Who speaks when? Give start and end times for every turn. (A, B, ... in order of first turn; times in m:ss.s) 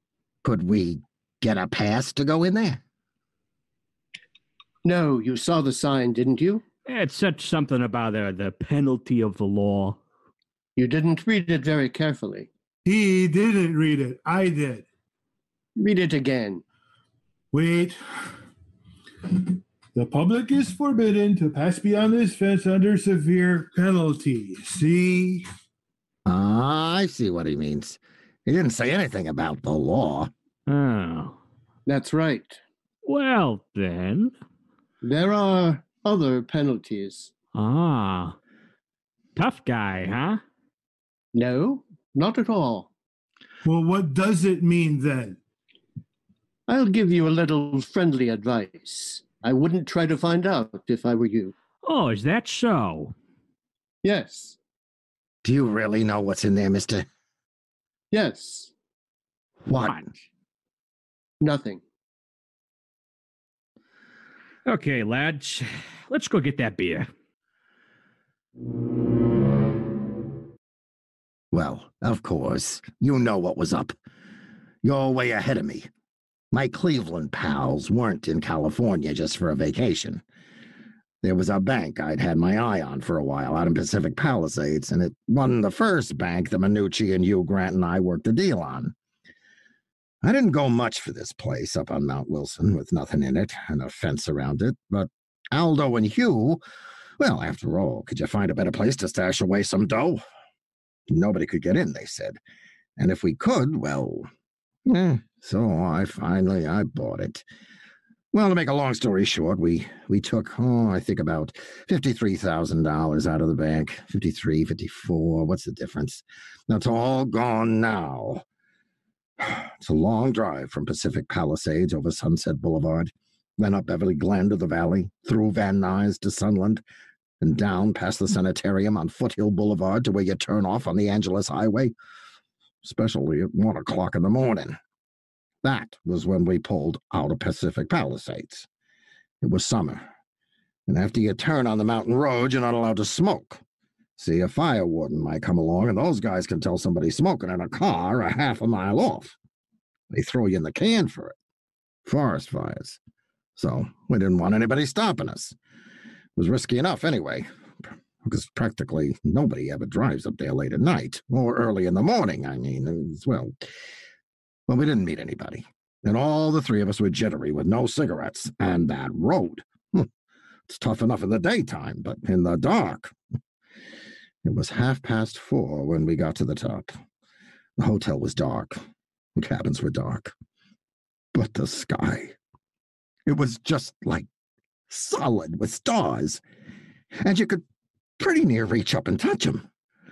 0:00.4-0:02.8 A
0:04.8-0:06.6 B
0:06.9-0:10.0 C
0:10.8-0:12.5 B
0:12.8-0:14.8 D
0:15.8-0:16.6 B
0:17.5-0:18.0 D
0:20.0-0:25.5 D
0:26.3-0:30.3 A
0:30.7-0:31.4 C
0:31.9-0:32.6 B
0:33.0-0:34.3 C
0:35.0-0:37.3 B
0:37.5-0:38.4 C
0:39.4-0:40.4 C
0:41.3-0:42.9 B
0:43.6-0:45.4 D
0:46.7-0:51.5 B
0:51.8-0:53.1 C
0:54.0-0:54.6 B
0:55.4-0:57.1 A
0:58.1-0:58.7 B
0:59.6-1:00.1 A
0:59.8-1:00.2 C
1:01.4-1:01.8 B
1:04.7-1:07.1 C
1:11.5-1:13.9 A
1:14.8-1:15.9 A
1:16.5-1:20.2 A
1:21.2-1:28.9 A
1:30.2-1:36.6 A
1:37.2-1:40.2 A
1:41.1-1:42.4 A
1:43.0-1:44.3 A
1:44.9-1:47.4 A
1:48.3-1:58.4 A
1:59.4-2:06.8 A
2:07.4-2:11.9 A
2:12.8-2:14.8 A
2:15.6-2:18.7 A
2:19.4-2:20.1 A
2:20.9-2:23.6 A
2:24.2-2:29.4 A
2:30.1-2:31.4 A
2:32.0-2:33.0 A
2:33.6-2:35.6 A
2:36.4-2:37.5 A
2:38.2-2:43.5 A
2:44.7-2:50.1 A
2:50.7-2:53.2 A
2:54.4-2:57.0 A
2:57.8-2:58.8 A
2:59.4-3:00.3 A
3:01.3-3:02.4 A
3:03.3-3:04.3 A
3:04.9-3:06.4 A
3:07.2-3:07.6 A
3:08.2-3:09.7 A